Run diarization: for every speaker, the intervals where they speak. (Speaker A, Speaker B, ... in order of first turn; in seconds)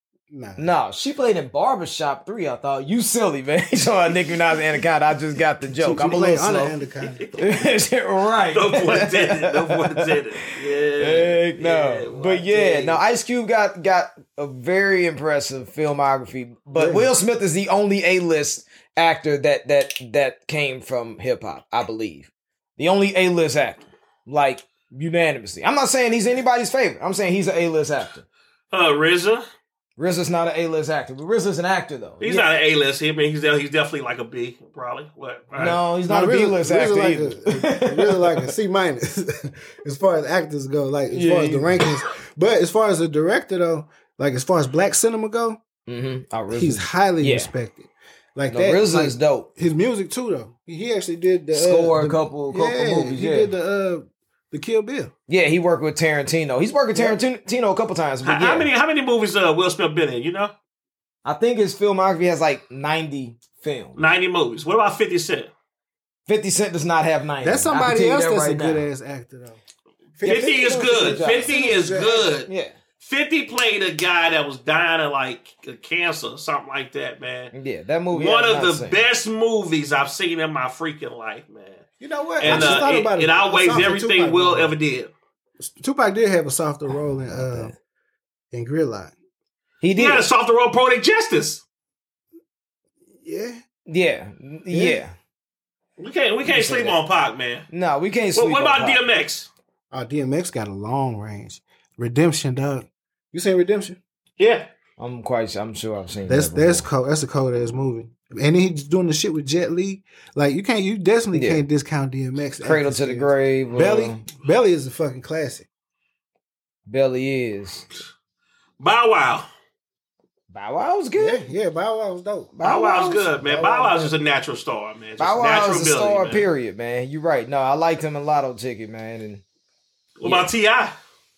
Speaker A: 0.3-0.7, 5.8-7.3, 16.7-17.1, 36.1-45.6, 46.5-55.1, 56.9-57.2, 67.4-69.6, 70.2-72.3, 82.0-84.7, 85.6-87.7, 88.5-89.1, 93.2-93.6, 94.7-95.0, 99.9-104.0, 106.3-115.7, 121.2-124.1
Speaker B: 0.6-6.7, 7.4-10.1, 11.0-28.2, 30.0-32.5, 35.5-38.5, 41.1-41.9, 45.9-47.5, 48.5-49.5, 51.5-53.5, 55.3-58.7, 61.2-64.0, 66.3-68.8, 70.2-71.5, 72.5-72.7, 77.5-79.0, 82.4-82.8, 87.3-87.7, 89.8-90.2, 93.9-95.1, 96.4-97.0, 97.7-99.0, 105.0-106.8, 111.3-111.6, 112.6-114.2, 116.9-117.9, 120.5-121.4, 122.6-123.2, 125.2-129.4, 130.2-130.5
Speaker C: 7.0-7.7, 8.5-13.0, 28.7-29.4, 32.2-35.8, 58.2-60.5, 64.0-65.5, 70.2-72.5, 73.0-77.5, 78.1-81.8, 82.4-85.1, 89.9-91.6, 96.0-97.7, 98.3-99.5, 104.4-104.7, 118.8-119.5, 122.6-126.5, 130.2-130.9